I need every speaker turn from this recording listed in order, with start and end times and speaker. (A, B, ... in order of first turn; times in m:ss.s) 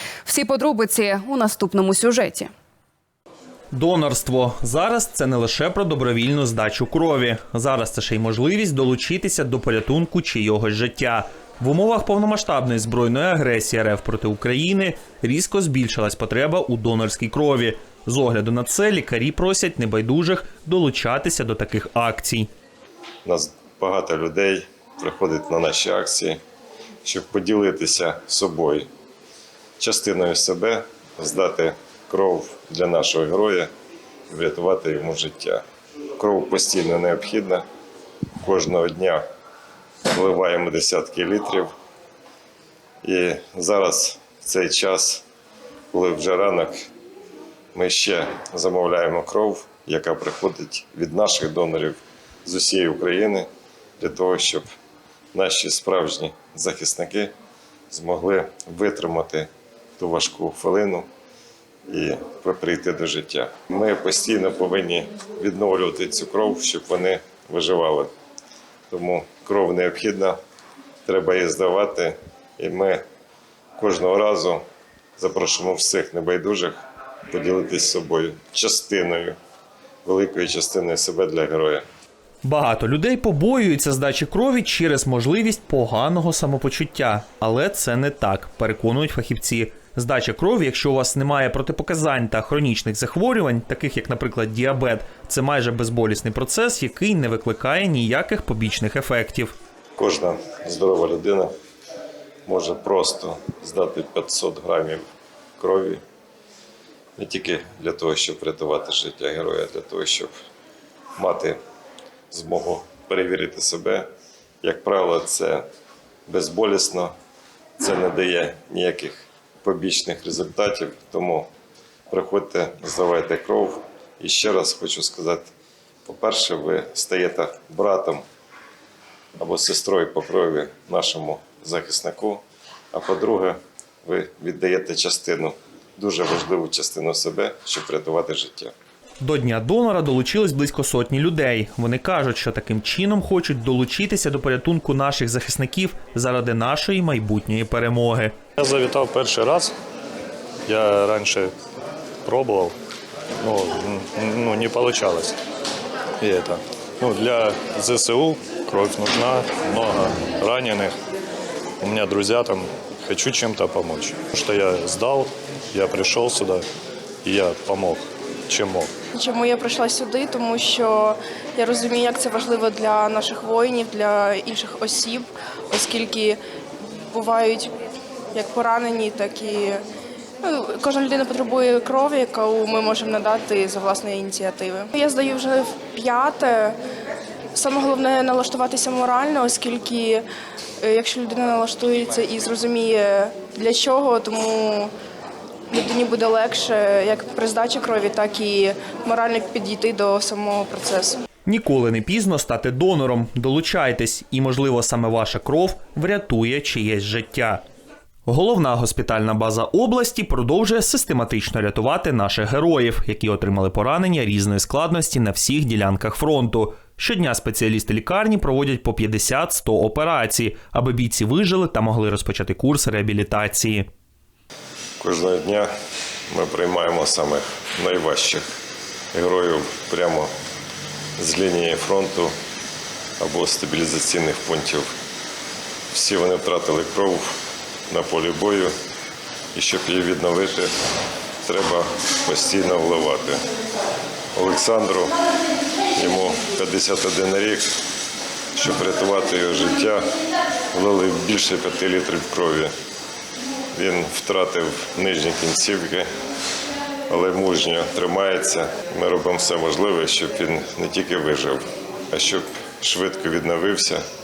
0:00.2-0:02.5 A
0:03.7-0:22.5 B
0:23.2-0:26.4 C
0:27.0-0:28.9 C
0:29.8-0:33.7 C
0:34.3-0:35.6 C
0:36.2-0:37.6 C
0:38.4-0:39.2 C
0:40.1-0:41.7 C
0:43.0-0:45.2 C
0:45.9-0:46.8 C
0:47.7-0:53.5 C
0:54.0-0:54.7 C
0:55.3-0:57.3 C
0:57.9-1:01.0 C
1:01.9-1:08.1 C
1:08.9-1:10.4 C
1:11.0-1:13.0 C
1:13.8-1:14.6 C
1:15.2-1:19.4 C
1:20.0-1:21.8 C
1:22.4-1:39.5 B
1:40.0-1:41.5 C
1:42.4-1:45.0 C
1:45.6-1:46.0 C
1:47.2-1:50.3 C
1:51.2-1:51.6 C
1:52.3-1:54.1 C
1:54.6-1:55.6 C
1:56.3-1:57.1 C
1:57.8-2:01.5 C
2:02.1-2:05.5 C
2:06.0-2:08.2 C
2:09.4-2:12.4 C
2:12.9-2:18.7 C
2:19.2-2:28.4 B
2:28.6-2:29.7 D
2:30.6-2:31.5 D
2:32.2-2:32.7 D
2:33.4-2:35.4 D
2:36.2-2:40.9 D
2:41.8-2:46.6 D
2:47.2-2:48.9 D
2:49.1-2:56.4 E
2:57.1-2:57.7 E
2:58.3-2:59.8 E
3:00.4-3:06.8 E
3:07.5-3:10.2 E
3:10.8-3:14.9 E
3:15.7-3:21.2 E
3:21.4-3:27.6 B
3:28.3-3:43.9 B
3:45.0-3:45.7 C
3:46.3-3:48.4 C
3:49.1-3:50.3 C
3:51.2-3:52.3 C
3:53.2-3:54.9 C
3:55.9-3:57.3 C
3:57.9-3:58.7 C
3:59.5-4:00.7 C
4:01.4-4:03.4 C
4:04.3-4:05.1 C
4:05.9-4:07.7 C
4:08.6-4:10.0 C
4:10.7-4:12.7 C
4:13.7-4:16.1 C
4:17.1-4:24.0 C